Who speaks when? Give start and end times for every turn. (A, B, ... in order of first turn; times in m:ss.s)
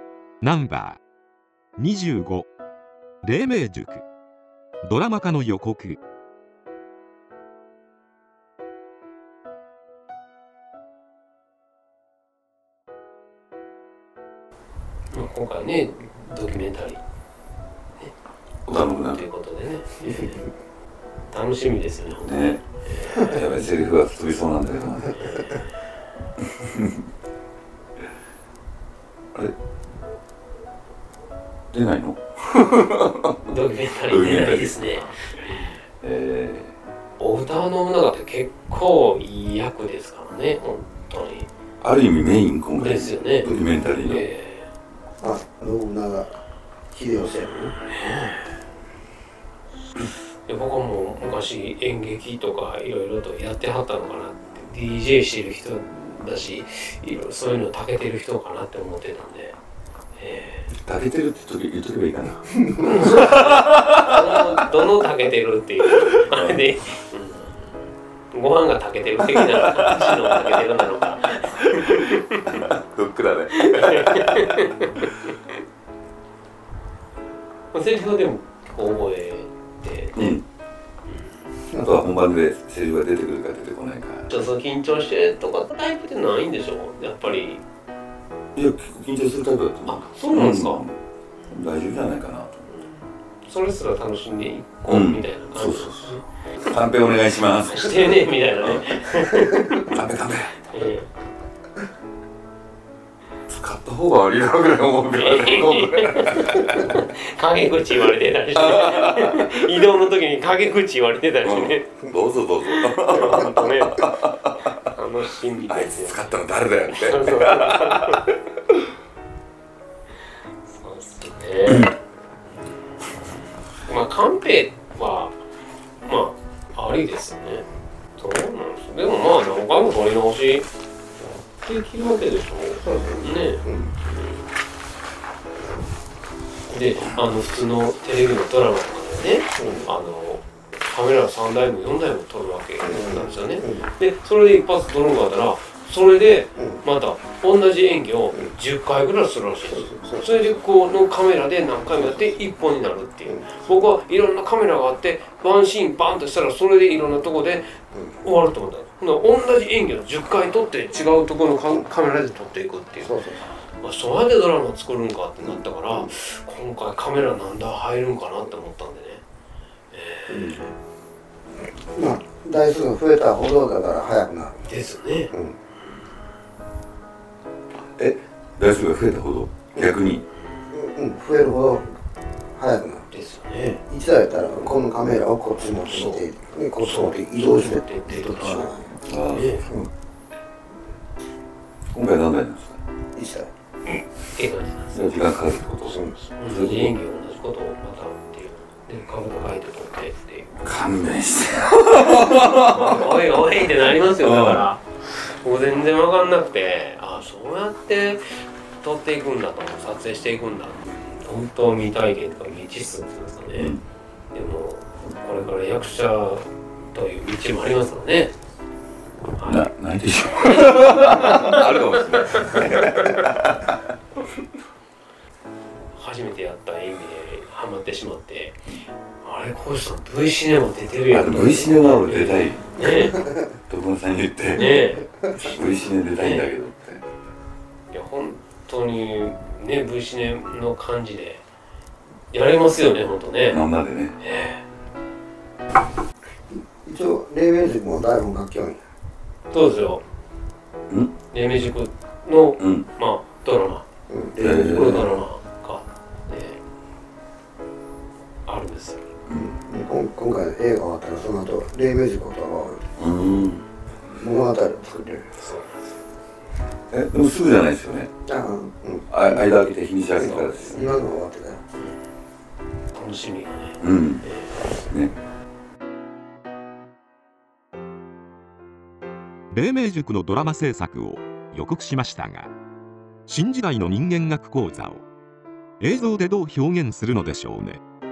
0:00.4-0:01.0 A
0:01.8-0:02.5 A
0:03.2-0:04.0 A
0:04.8-0:06.0 A
0:15.1-0:17.0 B
0:18.7-0:19.2 C
0:18.7-0:20.5 B
0:21.3-0:23.5 B
0:22.2-0:25.2 C
0:25.1-0:25.7 B
0:26.6-0:26.9 C
0:31.7-0:33.4 C
0:33.4-0:35.7 B
0:34.1-0:34.8 C
0:36.0-0:36.7 C
0:37.2-0:41.5 B
0:41.8-0:44.2 C
0:42.8-0:43.5 B
0:44.0-0:44.7 B
0:45.2-0:46.4 D
0:46.9-0:47.8 D
0:48.0-0:48.4 B
0:50.4-0:59.6 B
1:00.2-1:00.7 B
1:00.7-1:04.4 C
1:02.8-1:07.8 B
1:06.0-1:06.6 C
1:08.3-1:12.7 B
1:09.3-1:10.6 C
1:11.7-1:15.1 C
1:13.5-1:15.5 B
1:17.7-1:20.4 B
1:20.2-1:20.4 C
1:21.7-1:24.3 C
1:24.3-1:27.6 B
1:28.6-1:31.0 C
1:29.9-1:30.8 B
1:31.5-1:32.6 C
1:32.7-1:36.2 B
1:34.9-1:40.6 C
1:37.6-1:39.9 B
1:40.7-1:41.1 B
1:43.5-1:47.0 C
1:45.1-1:51.9 B
1:48.6-1:49.5 C
1:51.4-1:54.7 C
1:52.7-1:54.1 B
1:54.7-1:56.3 B
1:55.7-1:58.3 C
1:56.9-1:58.2 B
2:00.7-2:01.9 B
2:03.9-2:05.4 B
2:06.0-2:10.7 B
2:11.6-2:14.4 B
2:12.8-2:13.9 D
2:16.7-2:43.2 B
2:19.6-2:19.9 D
2:22.8-2:23.9 D
2:29.7-2:30.4 D
2:33.3-2:33.5 D
2:43.0-2:43.4 D
2:43.8-2:49.2 B
2:45.4-2:46.1 D
2:49.9-2:50.6 B
2:50.3-2:50.7 D
2:51.9-2:54.6 D
2:54.6-2:55.3 B
2:55.3-2:55.6 D
2:58.0-3:00.2 C
3:00.7-3:01.9 D
3:02.5-3:03.1 D
3:03.1-3:03.8 B
3:03.9-3:09.0 D
3:05.8-3:06.3 B
3:06.8-3:08.7 B
3:09.1-3:09.6 C
3:09.3-3:09.6 B
3:09.6-3:09.9 D
3:11.9-3:12.8 C
3:13.2-3:13.5 D
3:13.9-3:15.0 B
3:14.9-3:16.9 C
3:15.9-3:16.2 D
3:16.2-3:20.6 B
3:20.6-3:23.3 C
3:22.6-3:28.2 B
3:24.2-3:24.6 C
3:28.8-3:33.8 B
3:33.6-3:33.8 C
3:34.3-3:38.3 B
3:39.4-3:39.7 B
3:39.4-3:43.7 C
3:40.5-3:43.0 B
3:45.9-3:48.6 B
3:49.2-3:53.3 B
3:51.1-3:52.8 C
3:53.1-3:53.4 D
3:53.7-3:57.0 C
3:54.6-3:55.1 B
3:56.2-3:56.5 B
3:57.9-4:01.4 B
4:02.3-4:03.6 B
4:03.5-4:04.2 C
4:04.2-4:04.6 B
4:06.5-4:08.8 D
4:09.5-4:10.0 B
4:11.3-4:13.8 B
4:12.6-4:12.9 C
4:14.1-4:15.1 D
4:14.4-4:15.1 C
4:14.5-4:16.6 B
4:18.5-4:19.2 B
4:19.3-4:22.8 D
4:23.0-4:23.7 C
4:24.2-4:25.3 D
4:25.4-4:25.9 B
4:26.9-4:28.1 C
4:28.3-4:29.4 D
4:29.1-4:30.9 C
4:30.3-4:31.6 D
4:32.9-4:34.6 B
4:33.8-4:34.2 C
4:39.5-4:42.5 A
4:43.3-4:45.0 A
4:45.8-4:47.8 A